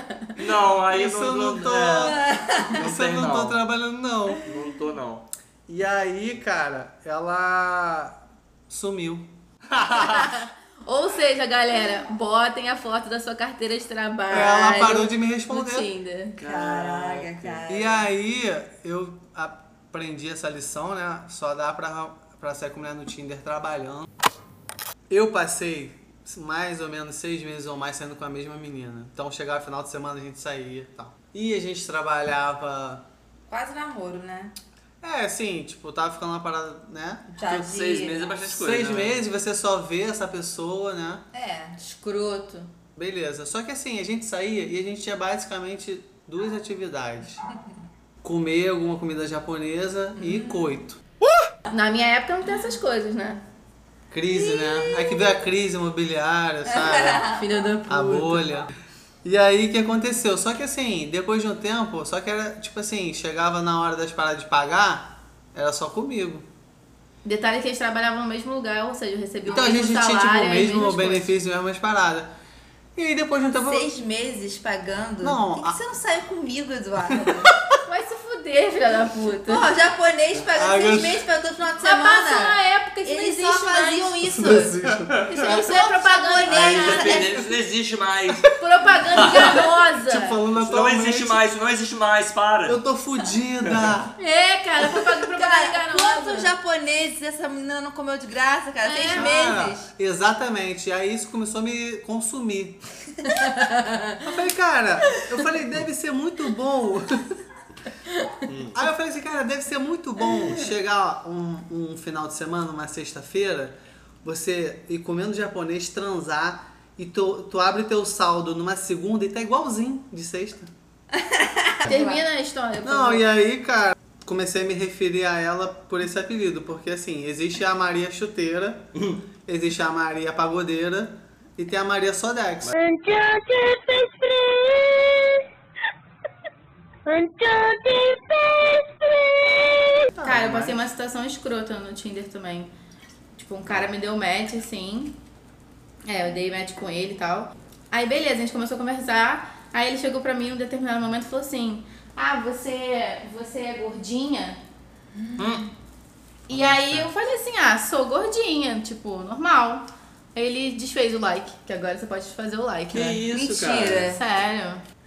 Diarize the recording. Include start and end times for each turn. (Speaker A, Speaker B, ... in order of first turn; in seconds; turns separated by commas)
Speaker A: 0.3-3.6, Speaker B: 0.9-2.2, Speaker C: 2.0-2.8, Speaker B: 2.7-4.4, Speaker A: 4.4-5.2, Speaker B: 5.7-8.2, Speaker B: 8.7-9.3, Speaker A: 9.8-10.2, Speaker D: 9.9-16.4, Speaker B: 14.3-15.9, Speaker A: 16.4-17.6, Speaker C: 16.4-18.1, Speaker B: 17.7-24.1, Speaker B: 25.1-33.0, Speaker C: 33.5-34.5, Speaker B: 35.0-37.3, Speaker C: 37.3-38.2, Speaker A: 37.5-39.2, Speaker B: 38.4-41.2, Speaker C: 41.3-41.8, Speaker D: 41.8-42.7, Speaker B: 43.0-47.5, Speaker B: 48.2-51.0, Speaker D: 51.7-53.4, Speaker B: 54.1-57.2, Speaker C: 54.3-55.4, Speaker C: 56.6-57.5, Speaker D: 57.3-58.5, Speaker B: 57.9-58.7, Speaker B: 59.2-66.5, Speaker D: 67.2-71.3, Speaker B: 69.5-72.3, Speaker B: 72.9-73.8, Speaker C: 73.6-77.5, Speaker B: 75.2-75.8, Speaker B: 77.2-77.5, Speaker D: 77.8-79.7, Speaker C: 79.0-84.8, Speaker B: 80.5-81.2, Speaker D: 81.8-84.1, Speaker B: 84.2-85.3, Speaker D: 85.3-87.3, Speaker C: 85.3-87.3, Speaker A: 86.4-88.5, Speaker D: 88.6-90.4, Speaker A: 89.1-92.8, Speaker B: 89.2-89.6, Speaker B: 90.1-91.4, Speaker B: 92.7-94.1, Speaker A: 93.7-93.9, Speaker D: 94.2-96.5, Speaker C: 94.8-99.9, Speaker D: 98.8-99.4, Speaker B: 99.1-102.8, Speaker D: 103.3-104.2, Speaker B: 104.2-107.3, Speaker A: 108.5-108.8, Speaker B: 108.7-120.7, Speaker C: 121.2-122.2, Speaker D: 121.8-123.3, Speaker B: 122.8-128.9, Speaker B: 129.4-132.7, Speaker E: 132.7-135.4, Speaker E: 137.1-140.1, Speaker B: 140.1-140.8, Speaker D: 140.2-142.7, Speaker D: 143.3-145.2, Speaker D: 146.1-154.6, Speaker C: 155.2-155.6, Speaker A: 155.4-155.7, Speaker A: 156.5-157.1, Speaker D: 156.5-163.2, Speaker A: 162.9-164.1, Speaker C: 163.3-164.2, Speaker D: 164.1-164.8